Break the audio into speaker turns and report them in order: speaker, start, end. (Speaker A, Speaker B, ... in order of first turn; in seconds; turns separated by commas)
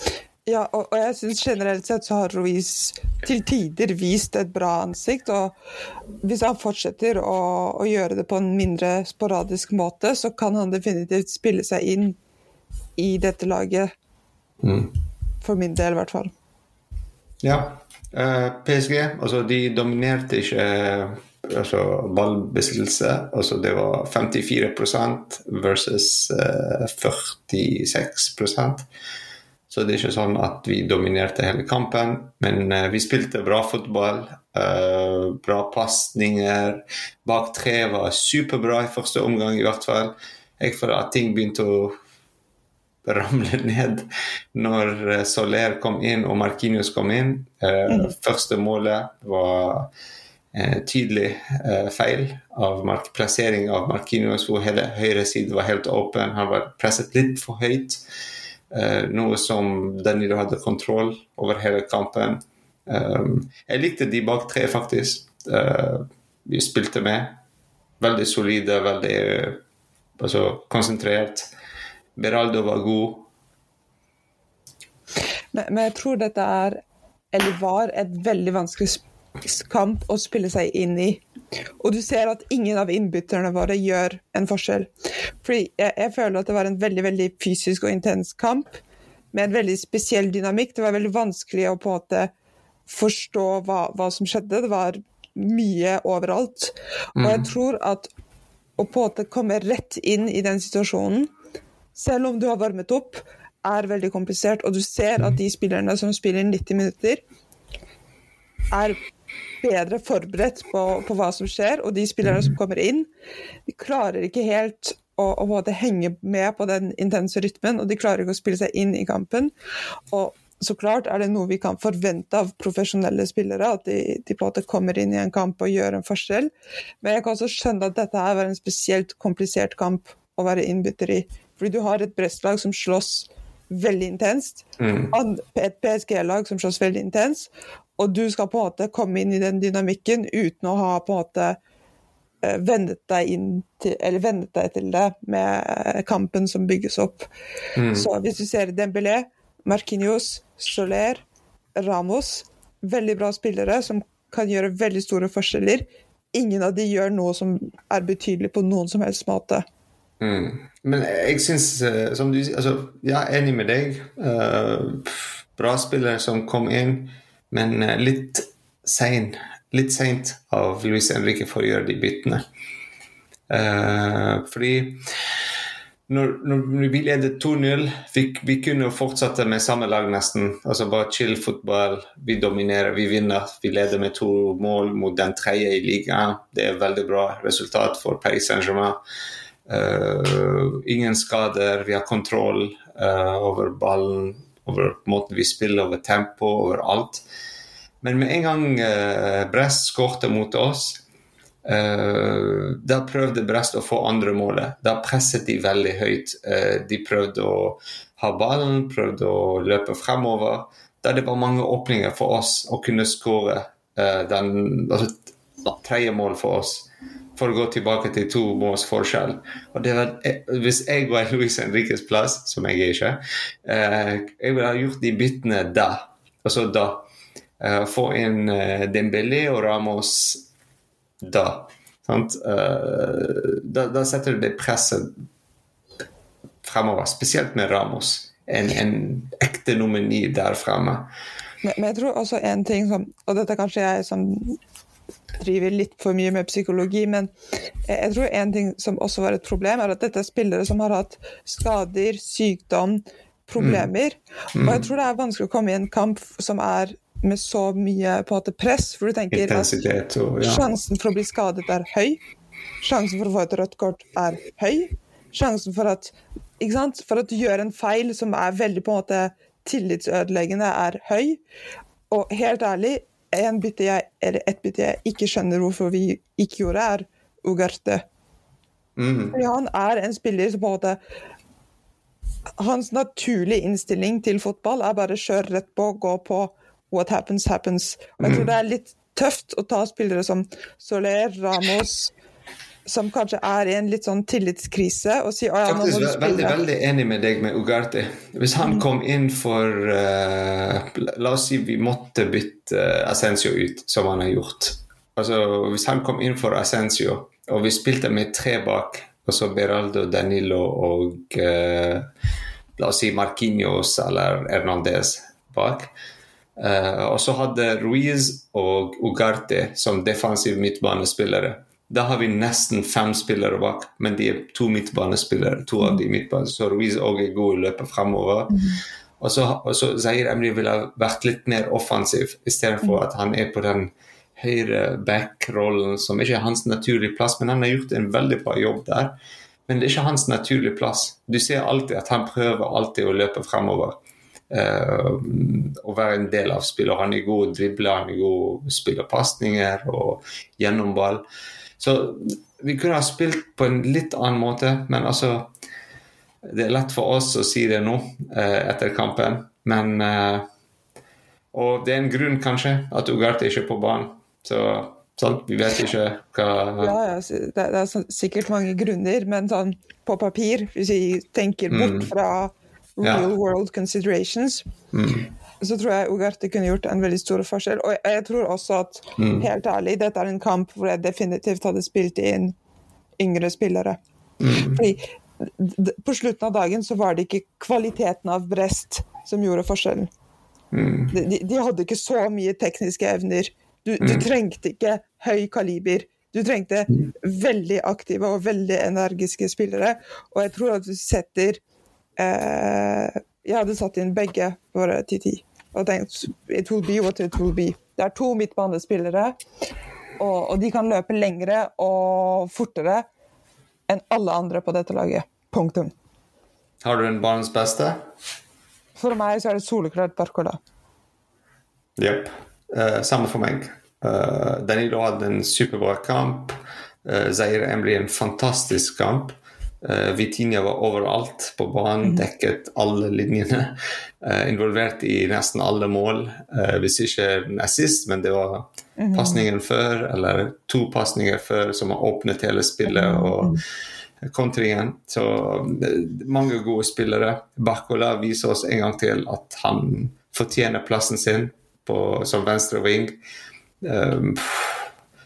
Speaker A: 0.5-5.5, Speaker A: 6.2-12.2, Speaker A: 13.0-13.9, Speaker B: 14.6-14.9, Speaker A: 15.4-16.3, Speaker B: 17.4-28.9, Speaker B: 29.7-42.0, Speaker B: 43.0-49.9, Speaker A: 47.9-48.1, Speaker B: 50.5-58.0, Speaker B: 58.7-67.4, Speaker B: 68.0-69.6, Speaker B: 70.2-71.5, Speaker B: 72.2-73.3, Speaker A: 75.5-76.8, Speaker A: 77.3-81.2, Speaker A: 81.8-84.9, Speaker A: 85.4-88.8, Speaker A: 89.3-92.3, Speaker A: 92.9-98.1, Speaker B: 97.2-97.5, Speaker A: 98.8-101.3, Speaker A: 102.0-107.2, Speaker A: 108.7-109.0, Speaker A: 109.6-113.1, Speaker A: 113.7-119.5, Speaker A: 120.1-126.5, Speaker A: 127.0-141.6, Speaker B: 134.8-135.1, Speaker A: 142.4-147.3, Speaker B: 147.8-148.1, Speaker A: 147.9-151.2, Speaker A: 151.8-159.7, Speaker B: 160.2-172.4, Speaker B: 173.5-175.0, Speaker B: 176.1-189.0, Speaker B: 189.7-197.3, Speaker B: 198.0-201.0, Speaker B: 201.7-227.1, Speaker B: 227.6-230.5, Speaker B: 231.2-235.2, Speaker B: 236.6-241.1, Speaker A: 241.6-244.6, Speaker A: 245.4-247.3, Speaker A: 247.9-259.8, Speaker B: 253.6-253.9, Speaker B: 254.6-254.8, Speaker B: 259.3-260.6, Speaker A: 260.4-262.2, Speaker A: 262.8-271.4, Speaker A: 272.1-278.0, Speaker B: 279.0-279.4, Speaker A: 279.3-281.0, Speaker A: 282.6-292.1, Speaker B: 288.2-288.5, Speaker A: 292.9-296.6, Speaker B: 295.7-312.1, Speaker B: 312.8-315.9, Speaker B: 316.6-328.6, Speaker A: 328.5-328.8, Speaker B: 329.2-344.0, Speaker B: 344.5-351.2, Speaker B: 351.8-355.5, Speaker B: 356.5-360.4, Speaker B: 361.5-366.9, Speaker A: 366.8-374.7, Speaker B: 371.7-372.1, Speaker B: 374.9-375.3, Speaker A: 375.6-382.6, Speaker B: 379.2-379.5, Speaker A: 383.2-384.0, Speaker B: 384.4-384.8, Speaker A: 384.6-390.1, Speaker B: 390.7-391.2, Speaker A: 391.1-401.6, Speaker A: 402.2-409.4, Speaker A: 410.2-413.1, Speaker A: 413.9-415.9, Speaker B: 416.8-418.0, Speaker A: 419.0-420.6, Speaker B: 422.0-443.6, Speaker A: 439.0-439.5, Speaker A: 442.9-443.6, Speaker B: 444.2-453.2, Speaker B: 453.8-454.9